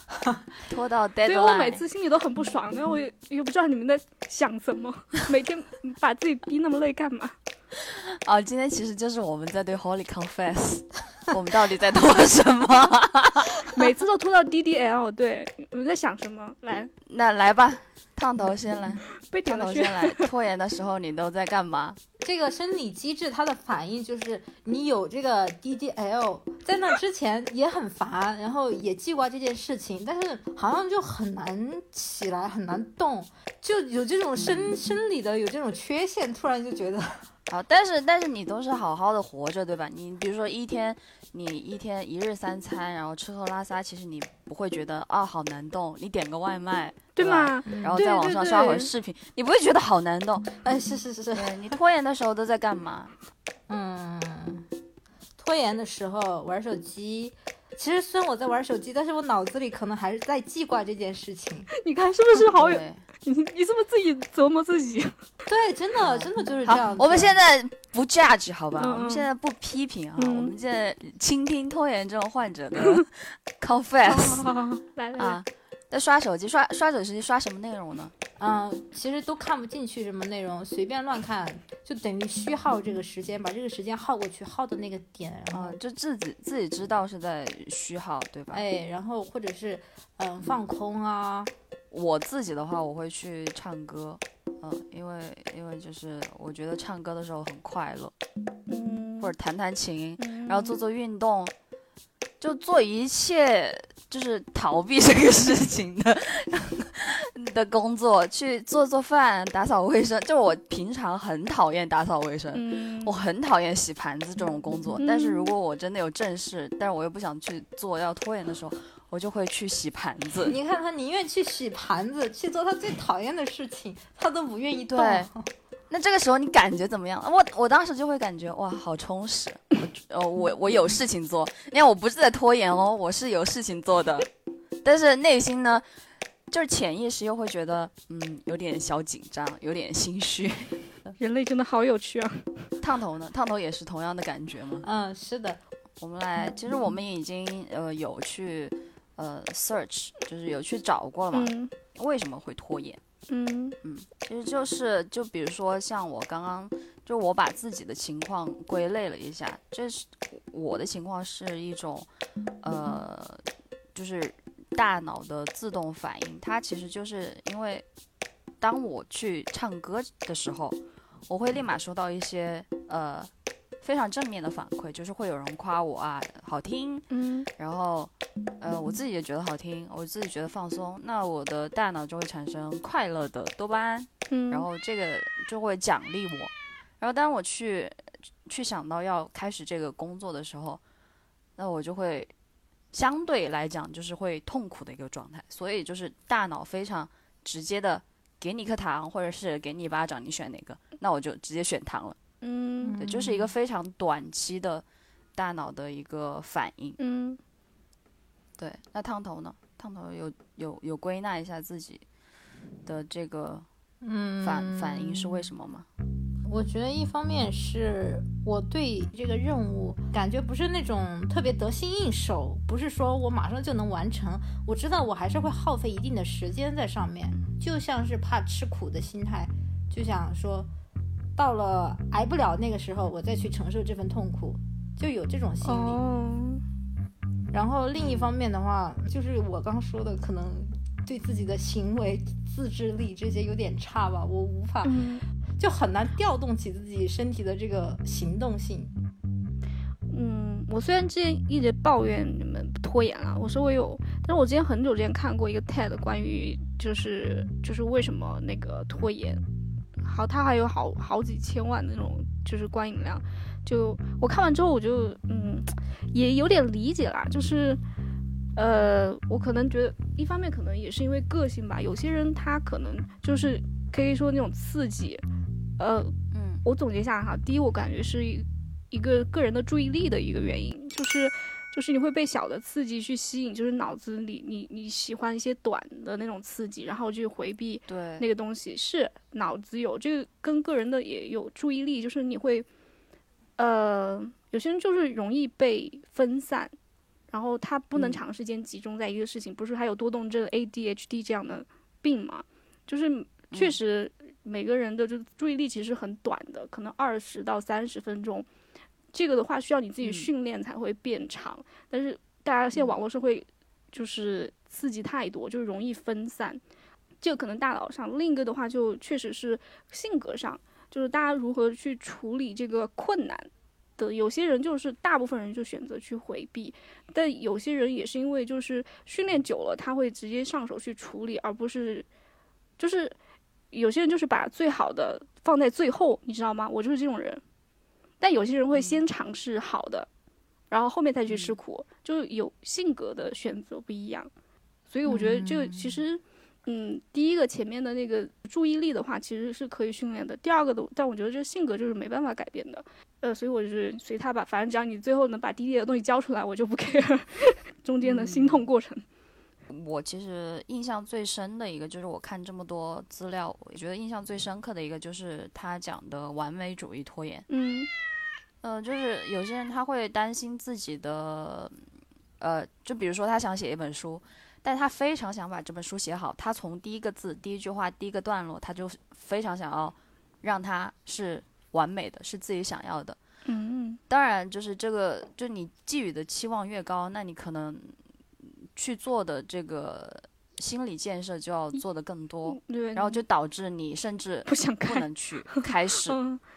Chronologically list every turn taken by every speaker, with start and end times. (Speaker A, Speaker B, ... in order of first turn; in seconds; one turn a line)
Speaker A: 0.7-1.8
Speaker B: 1.2-7.3
Speaker A: 7.9-13.7
Speaker B: 13.7-16.9
Speaker A: 17.1-22.0
Speaker B: 19.2-20.3
Speaker C: 22.2-37.3
Speaker A: 34.4-34.8
Speaker A: 37.5-50.6
Speaker B: 47.1-48.9
Speaker C: 47.7-48.0
Speaker C: 50.6-51.8
Speaker A: 51.3-53.1
Speaker C: 53.7-54.7
Speaker C: 55.4-61.7
Speaker B: 61.8-65.2
Speaker A: 62.5-63.0
Speaker C: 65.5-67.4
Speaker A: 66.0-74.5
Speaker B: 68.8-69.3
Speaker B: 70.2-70.5
Speaker B: 74.1-75.4
Speaker A: 75.2-78.1
Speaker C: 78.4-85.8
Speaker A: 85.5-88.6
Speaker C: 88.5-91.5
Speaker A: 91.9-98.1
Speaker B: 98.7-99.3
Speaker A: 99.2-101.5
Speaker B: 100.2-100.8
Speaker A: 102.4-120.6
Speaker B: 112.5-113.1
Speaker B: 115.0-115.5
Speaker C: 120.5-125.5
Speaker A: 124.9-125.3
Speaker A: 125.9-134.3
Speaker A: 134.8-135.8
Speaker A: 136.5-140.9
Speaker B: 141.2-142.7
Speaker A: 142.8-144.9
Speaker C: 144.8-145.6
Speaker A: 146.0-153.0
Speaker B: 151.3-151.7
Speaker B: 153.3-153.8
Speaker A: 153.8-162.1
Speaker A: 162.6-167.8
Speaker A: 168.6-170.8
Speaker A: 171.3-173.3
Speaker A: 173.8-190.8
Speaker B: 177.1-177.5
Speaker B: 184.3-184.7
Speaker A: 191.6-192.3
Speaker A: 192.9-202.2
Speaker B: 202.4-203.0
Speaker C: 202.8-203.6
Speaker A: 203.0-204.8
Speaker A: 205.3-207.0
Speaker B: 207.0-207.4
Speaker A: 208.6-212.1
Speaker A: 212.8-213.7
Speaker C: 214.0-215.5
Speaker A: 214.4-215.9
Speaker C: 216.4-230.7
Speaker C: 231.4-236.0
Speaker B: 235.7-236.6
Speaker C: 237.5-245.0
Speaker A: 238.0-238.3
Speaker B: 244.8-245.2
Speaker C: 245.6-248.9
Speaker B: 250.1-259.4
Speaker B: 260.0-267.8
Speaker B: 268.6-275.2
Speaker B: 275.8-292.7
Speaker A: 276.3-276.6
Speaker A: 287.9-288.2
Speaker B: 293.6-296.7
Speaker B: 297.3-308.5
Speaker A: 297.9-298.2
Speaker A: 303.5-303.8
Speaker B: 309.1-316.6
Speaker A: 310.0-310.3
Speaker B: 317.2-332.1
Speaker B: 332.8-333.2
Speaker B: 333.7-337.4
Speaker B: 338.2-340.1
Speaker B: 340.7-344.3
Speaker B: 344.9-359.0
Speaker C: 345.1-345.8
Speaker A: 358.0-358.7
Speaker A: 359.7-367.5
Speaker B: 367.5-367.9
Speaker A: 368.6-371.9
Speaker A: 372.4-383.2
Speaker B: 383.5-384.0
Speaker A: 384.1-396.2
Speaker B: 392.5-393.2
Speaker B: 394.5-395.0
Speaker B: 395.6-396.4